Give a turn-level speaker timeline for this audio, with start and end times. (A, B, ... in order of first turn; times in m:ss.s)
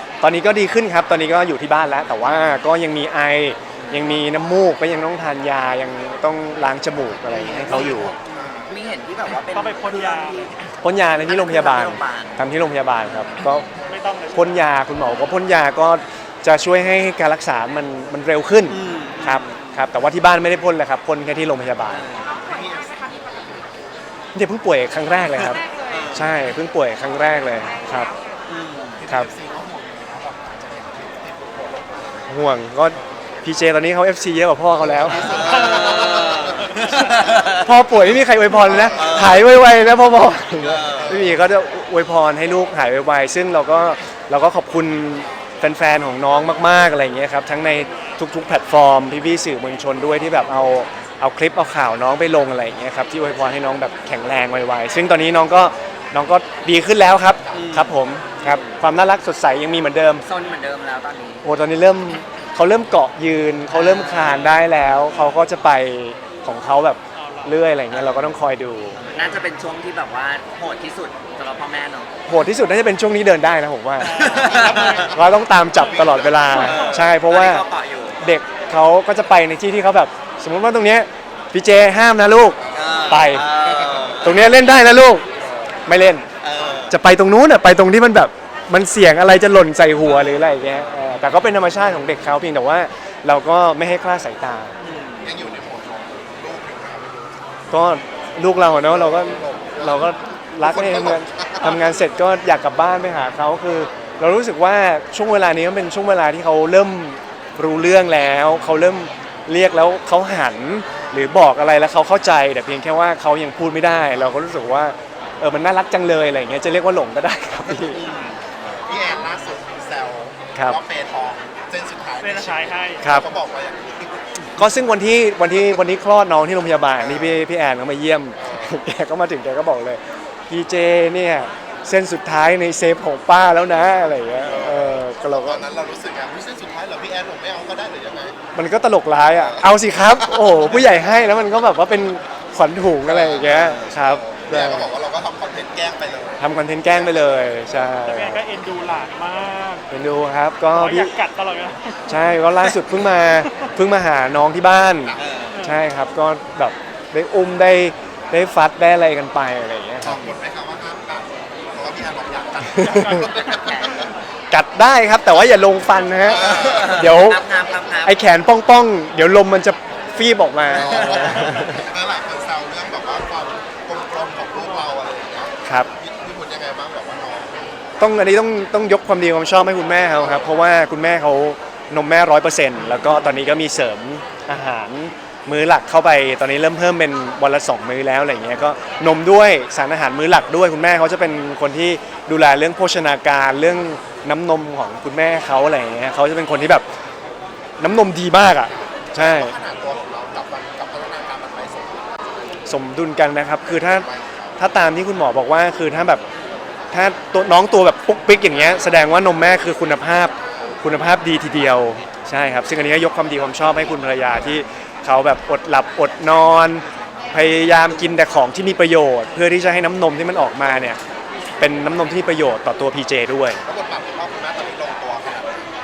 0:00.2-0:08.1 A
0:03.7-0:04.2 B
0:07.3-0:10.6 B
0:09.5-0:10.6 C
0:10.8-0:13.6 A
0:11.1-0:12.4 B
0:13.0-0:13.4 B
0:13.8-0:14.7 C
0:14.3-0:22.1 A
0:18.7-0:19.9 B
0:21.8-0:22.3 B
0:22.2-0:23.8 D
0:24.3-0:28.1 A
0:25.4-0:26.4 B
0:28.5-0:29.0 B
0:29.0-0:32.3 D
0:32.3-0:35.4 A
0:34.8-0:39.4 D
0:35.1-0:37.7 B
0:37.6-1:00.2 A
0:38.9-0:39.4 B
0:40.4-0:41.3 D
0:40.6-0:41.3 B
0:57.5-0:58.8 B
1:00.2-1:01.5 B
1:01.4-1:09.0 A
1:03.7-1:04.6 B
1:07.1-1:07.6 C
1:07.9-1:08.4 B
1:08.9-1:12.1 B
1:12.3-1:17.6 A
1:14.0-1:15.1 C
1:14.0-1:14.9 B
1:14.4-1:15.2 D
1:15.8-1:16.7 D
1:16.5-1:17.0 C
1:16.5-1:18.3 B
1:18.2-1:23.5 A
1:22.6-1:24.4 D
1:22.7-1:24.5 B
1:24.2-1:25.2 A
1:25.4-1:26.8 D
1:25.8-1:26.2 A
1:26.4-1:27.0 B
1:26.9-1:34.8 A
1:30.0-1:30.5 B
1:34.8-1:35.4 B
1:35.2-1:37.4 D
1:37.7-1:58.0 A
1:38.7-1:41.8 D
1:50.9-1:51.3 D
1:57.7-2:04.6 D
1:57.9-1:58.4 B
2:02.2-2:03.0 C
2:03.0-2:03.3 A
2:04.6-2:15.6 A
2:07.0-2:07.4 D
2:08.4-2:08.8 D
2:14.4-2:18.4 D
2:18.5-2:24.9 A
2:19.3-2:21.0 D
2:23.0-2:27.8 D
2:23.5-2:23.9 B
2:26.4-2:28.4 A
2:28.0-2:29.9 C
2:29.9-2:31.1 A
2:30.7-2:33.6 C
2:32.1-2:40.2 A
2:35.0-2:35.3 D
2:35.2-2:35.6 B
2:35.5-2:35.8 C
2:40.0-2:44.1 D
2:40.0-2:40.3 B
2:42.8-2:43.3 A
2:43.5-2:44.1 B
2:44.5-2:47.4 A
2:46.2-2:47.7 D
2:46.4-2:48.2 B
2:48.0-2:51.8 A
2:50.6-2:57.9 D
2:50.9-2:51.6 B
2:58.0-3:16.8 A
3:00.2-3:00.5 D
3:17.8-3:19.6 A
3:18.5-3:22.5 D
3:22.6-3:26.2 A
3:23.7-3:24.6 D
3:26.9-3:41.0 A
3:28.5-3:29.3 D
3:41.6-3:43.6 A
3:43.6-3:45.6 D